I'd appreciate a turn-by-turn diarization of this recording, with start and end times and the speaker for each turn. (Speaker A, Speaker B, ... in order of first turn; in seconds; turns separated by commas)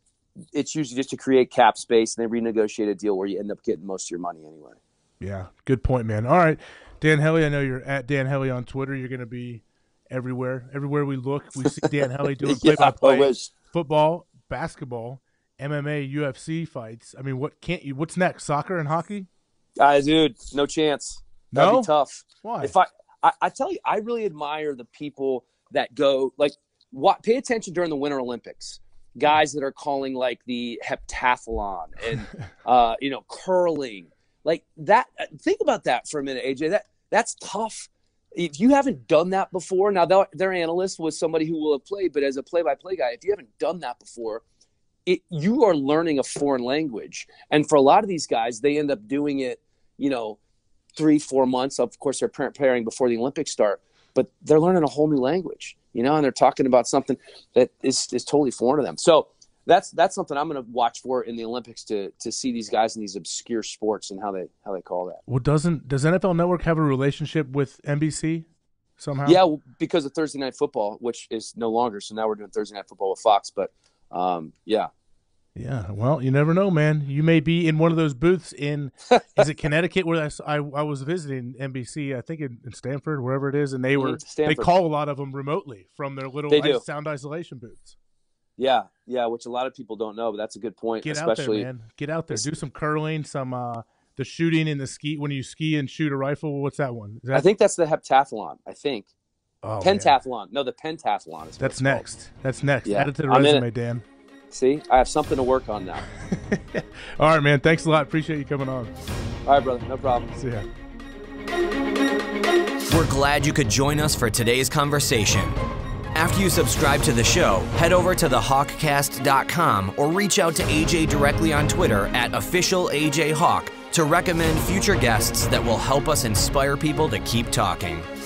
Speaker A: 0.5-4.8, Speaker B: 5.2-19.3, Speaker A: 11.7-13.5, Speaker A: 19.8-44.4, Speaker B: 21.5-21.9, Speaker B: 22.4-22.7, Speaker A: 45.1-50.4, Speaker A: 51.0-65.2, Speaker B: 65.3-68.5, Speaker B: 69.0-69.4, Speaker A: 69.3-74.9, Speaker B: 75.6-88.0, Speaker A: 79.1-79.4, Speaker A: 84.0-84.7, Speaker A: 86.5-86.8, Speaker A: 88.6-91.7, Speaker B: 91.0-97.5, Speaker A: 97.3-99.1, Speaker B: 99.6-100.2, Speaker A: 99.8-102.0, Speaker B: 101.6-104.0, Speaker A: 102.8-103.7, Speaker A: 104.5-106.1, Speaker B: 106.3-108.9, Speaker A: 109.5-110.3, Speaker B: 110.3-110.7, Speaker C: 112.9-115.6, Speaker C: 116.2-128.1